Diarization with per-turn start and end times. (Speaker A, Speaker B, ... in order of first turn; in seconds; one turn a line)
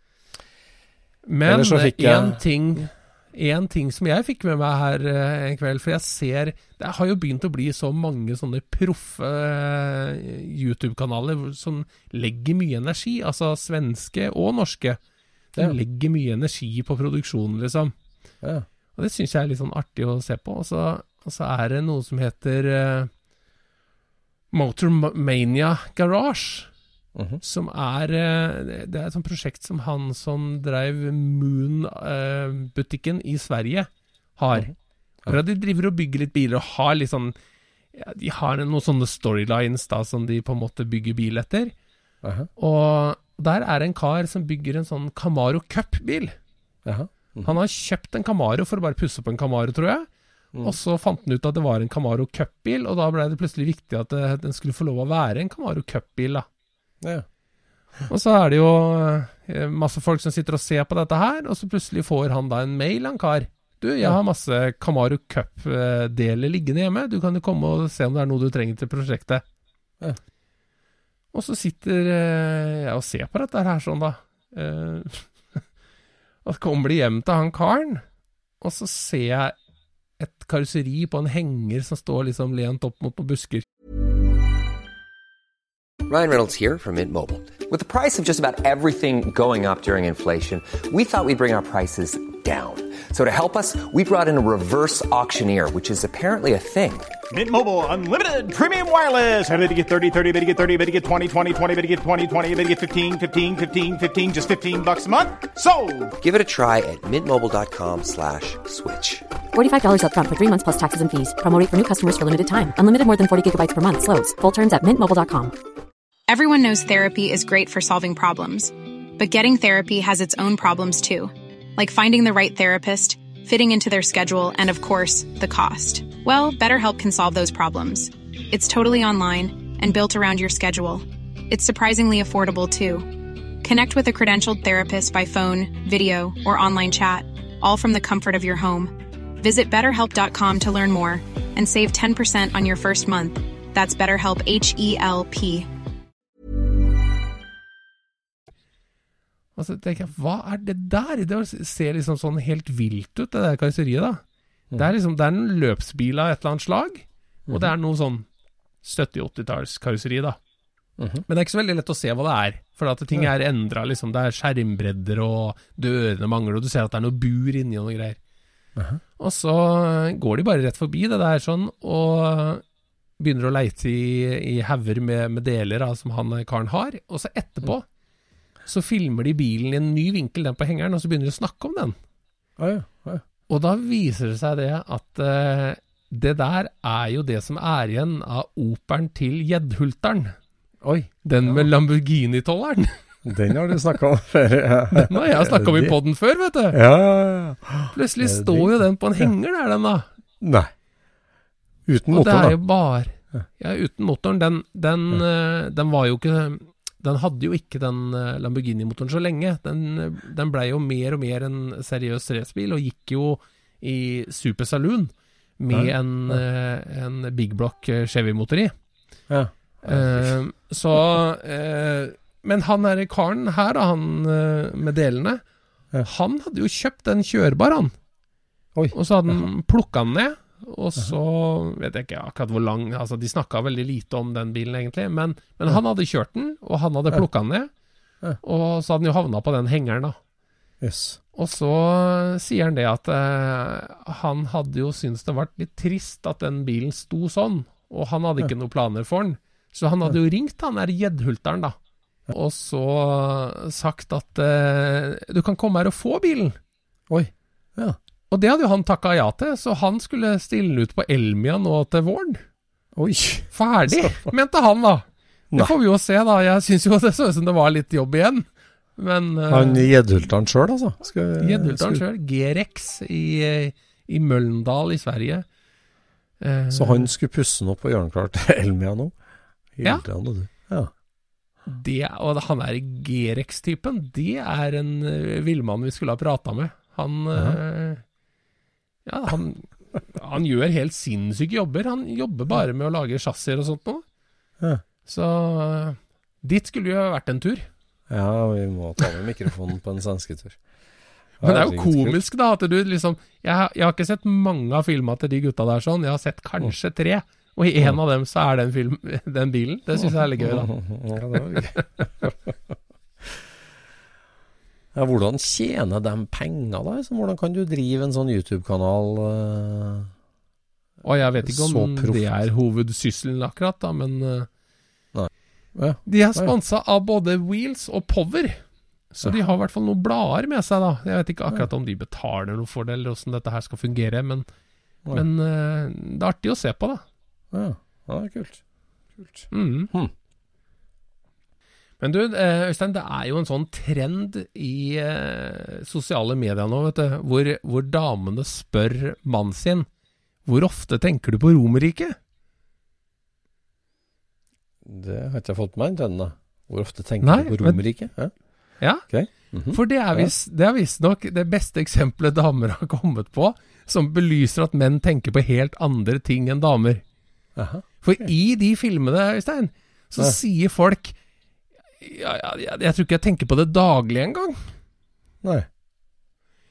Speaker A: 1.3-15.0
Speaker B: 1.4-2.9
Speaker A: 15.5-17.9
Speaker A: 19.0-23.1
Speaker A: 24.5-26.7
Speaker B: 27.1-27.4
Speaker A: 27.4-34.7
Speaker A: 35.3-37.4
Speaker A: 37.9-41.7
Speaker B: 42.2-42.5
Speaker A: 42.6-46.4
Speaker B: 46.9-47.6
Speaker A: 47.5-50.1
Speaker A: 50.6-56.5
Speaker A: 58.1-69.4
Speaker A: 71.3-75.6
Speaker A: 76.5-78.0
Speaker A: 78.6-79.5
Speaker A: 80.2-83.7
Speaker C: 86.1-97.1
Speaker D: 97.3-106.1
Speaker C: 106.2-109.2
Speaker E: 109.5-115.5
Speaker F: 116.3-145.7
Speaker A: 149.6-154.2
Speaker A: 154.7-158.3
Speaker A: 158.8-160.4
Speaker A: 161.3-168.2
Speaker B: 168.8-169.0
Speaker A: 169.2-172.6
Speaker A: 173.2-177.9
Speaker A: 178.7-182.0
Speaker B: 182.6-183.2
Speaker A: 183.5-190.3
Speaker B: 190.8-191.7
Speaker A: 191.2-193.0
Speaker B: 193.2-195.9
Speaker A: 194.9-196.8
Speaker B: 196.7-199.3
Speaker A: 197.9-200.1
Speaker B: 200.4-200.7
Speaker B: 201.9-202.6
Speaker A: 202.1-218.7
Speaker B: 215.7-216.4
Speaker B: 219.3-220.3
Speaker A: 219.9-225.4
Speaker A: 226.1-227.9
Speaker B: 228.8-229.4
Speaker A: 228.9-237.7
Speaker A: 238.4-240.2
Speaker B: 240.8-241.2
Speaker A: 241.3-251.8
Speaker A: 252.3-256.6
Speaker B: 257.1-258.0
Speaker A: 258.3-262.4
Speaker B: 263.0-264.3
Speaker A: 263.5-269.9
Speaker B: 269.5-272.1
Speaker A: 271.4-275.5
Speaker A: 276.4-277.1
Speaker B: 276.7-279.1
Speaker B: 279.8-280.9
Speaker A: 281.7-288.0
Speaker A: 289.1-294.0
Speaker A: 295.1-297.7
Speaker B: 298.1-300.6
Speaker B: 301.4-302.2
Speaker A: 301.4-310.7
Speaker B: 309.9-312.7
Speaker B: 314.9-320.1
Speaker A: 321.0-324.5
Speaker B: 321.4-322.4
Speaker B: 325.1-326.5
Speaker A: 326.1-334.5
Speaker A: 335.1-337.0
Speaker B: 337.5-338.6
Speaker B: 339.1-340.1
Speaker A: 339.5-339.9
Speaker A: 342.0-349.9
Speaker A: 350.5-352.2
Speaker B: 354.8-358.3
Speaker A: 357.2-357.8
Speaker B: 359.0-360.3
Speaker A: 359.7-367.0
Speaker B: 367.6-368.2
Speaker A: 368.0-371.2
Speaker A: 372.0-374.7